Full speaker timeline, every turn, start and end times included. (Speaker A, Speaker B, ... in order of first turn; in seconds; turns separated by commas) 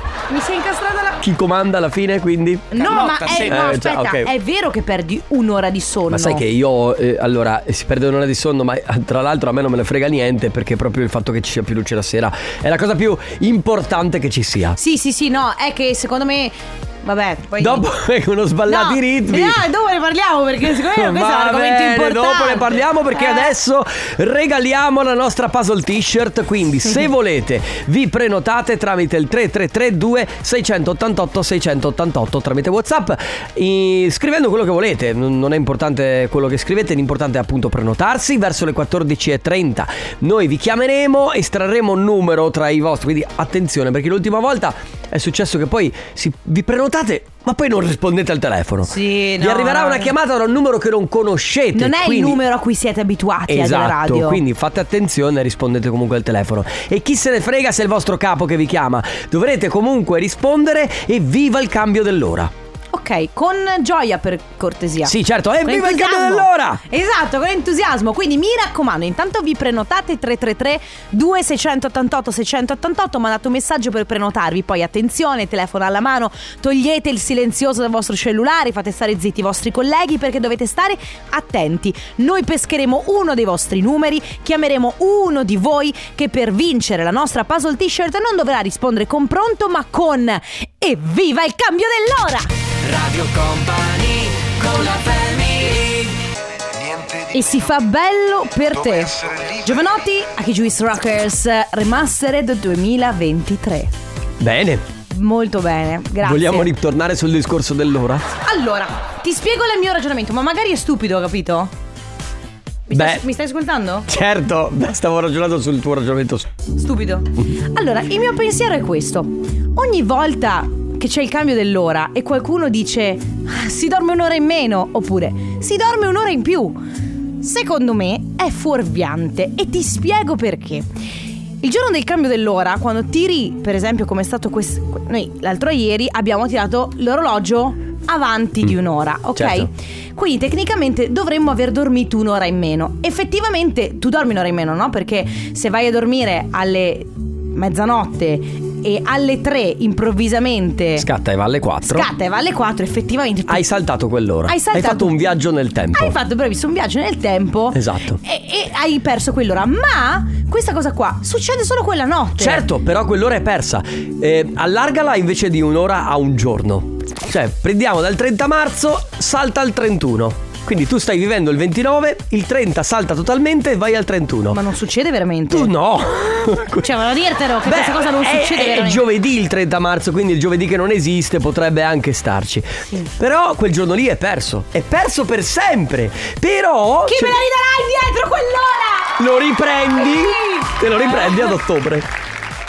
Speaker A: 0.3-1.2, Speaker B: 1.2-4.3, Speaker A: 2.7-6.5, Speaker B: 6.1-14.8, Speaker A: 14.8-17.9, Speaker B: 17.6-19.6, Speaker A: 18.7-23.5, Speaker B: 20.6-52.4, Speaker A: 48.9-50.1, Speaker A: 51.7-54.4, Speaker B: 53.5-62.5, Speaker A: 62.9-92.5, Speaker B: 65.0-66.8, Speaker C: 92.8-96.2, Speaker A: 97.3-103.9, Speaker B: 104.4-104.8, Speaker A: 105.1-106.7, Speaker B: 106.2-108.3, Speaker A: 108.4-111.7, Speaker A: 112.9-114.1, Speaker B: 112.9-113.2, Speaker B: 114.1-116.5, Speaker A: 116.8-126.8, Speaker A: 127.4-130.9, Speaker A: 131.6-151.1, Speaker B: 139.4-139.7, Speaker B: 151.0-152.1, Speaker A: 151.8-153.6, Speaker B: 153.5-156.2, Speaker A: 154.5-155.2, Speaker A: 155.9-162.7, Speaker B: 157.7-158.2, Speaker B: 162.4-174.6, Speaker A: 174.5-175.7, Speaker B: 175.5-177.0, Speaker A: 176.8-179.0, Speaker B: 177.6-187.4, Speaker A: 187.1-189.2, Speaker B: 189.2-192.1, Speaker A: 190.0-191.6